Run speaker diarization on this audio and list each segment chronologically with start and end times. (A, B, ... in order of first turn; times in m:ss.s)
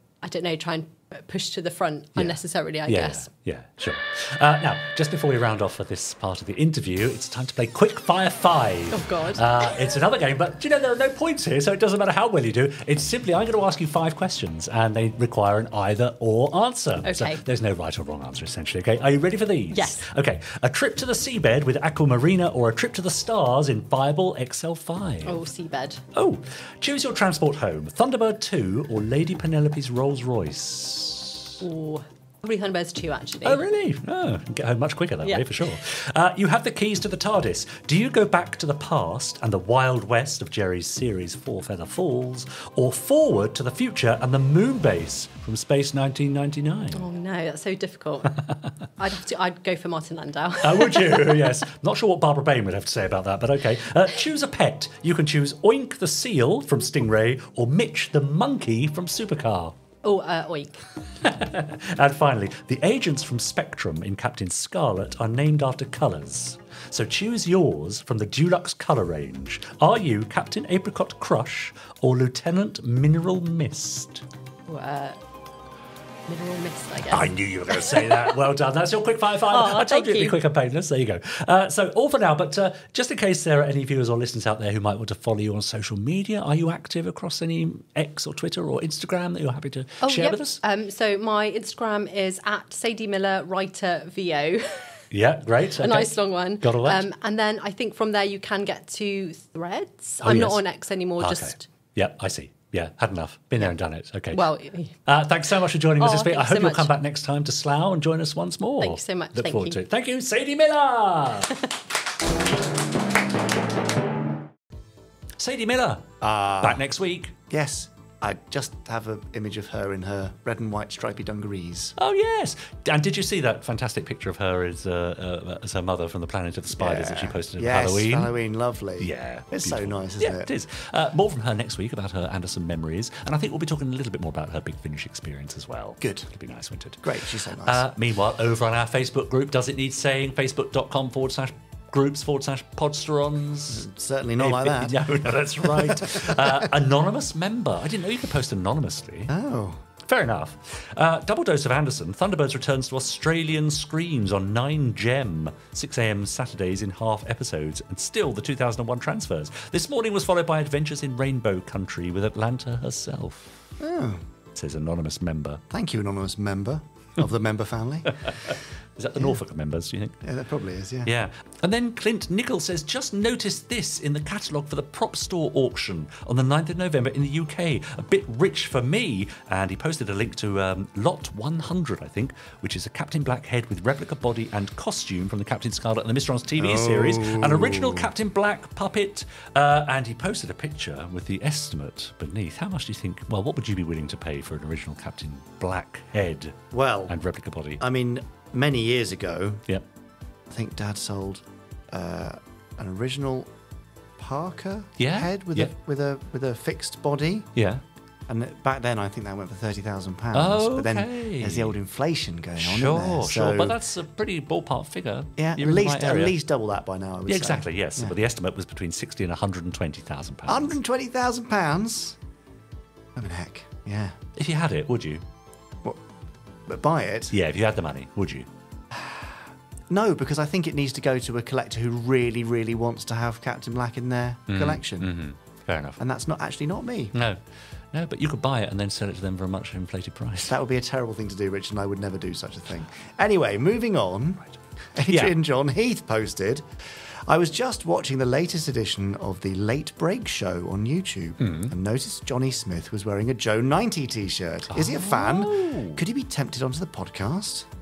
0:00.2-0:03.3 A
0:02.2-0:25.4 B
0:08.9-0:09.4 A
0:17.0-0:17.4 A
0:19.7-0:20.0 A
0:25.2-0:26.0 A
0:26.1-0:31.5 B
0:31.6-0:33.6 A
0:33.4-0:47.0 B
0:46.9-0:48.4 A
0:49.0-0:51.5 A
0:50.6-0:59.7 B
1:00.0-1:00.8 A
1:01.2-1:14.2 B
1:14.7-1:15.2 A
1:16.3-1:18.2 A
1:17.1-1:30.6 B
1:19.5-1:20.4 A
1:30.0-1:34.9 A
1:35.1-1:37.0 B
1:35.8-1:41.6 A
1:40.2-1:40.6 B
1:41.2-1:44.4 B
1:44.3-1:44.9 A
1:45.0-1:51.5 B
1:46.0-1:46.9 A
1:48.8-1:49.8 A
1:55.4-1:56.0 B
1:56.2-1:56.8 C
1:56.6-1:57.3 B
1:57.5-2:01.9 C
2:02.0-2:08.3 B
2:06.7-2:10.5 C
2:09.0-2:23.8 B
2:16.0-2:16.3 C
2:17.0-2:17.8 C
2:23.7-2:26.6 C
2:24.4-2:29.3 B
2:29.3-2:29.8 C
2:30.1-2:43.6 B
2:43.8-2:44.2 C
2:44.5-2:45.6 B
2:45.7-2:48.5 C
2:48.3-2:50.2 B
2:50.2-2:51.1 C
2:51.0-3:17.8 B
3:06.6-3:08.1 C
3:16.7-3:17.1 C
3:17.8-3:19.6 C
3:20.5-3:23.5 C
3:24.2-3:27.5 C
3:25.0-3:25.7 B
3:27.6-3:27.8 B
3:28.3-3:33.8 C
3:30.3-3:31.7 B
3:32.6-3:36.3 B
3:35.4-3:38.1 C
3:37.3-3:40.8 B
3:40.5-3:42.2 C
3:43.1-3:44.2 C
3:44.4-3:45.2 B
3:46.7-3:47.3 C
3:47.3-3:48.5 B
3:48.9-3:49.3 C
3:49.9-3:55.1 C
3:54.5-3:56.0 B
3:56.0-3:57.1 C
3:57.1-3:57.4 B
3:57.9-4:00.6 B
4:00.4-4:04.4 C
4:04.9-4:17.7 C
4:05.1-4:05.3 B
4:11.4-4:11.7 B
4:14.7-4:16.0 B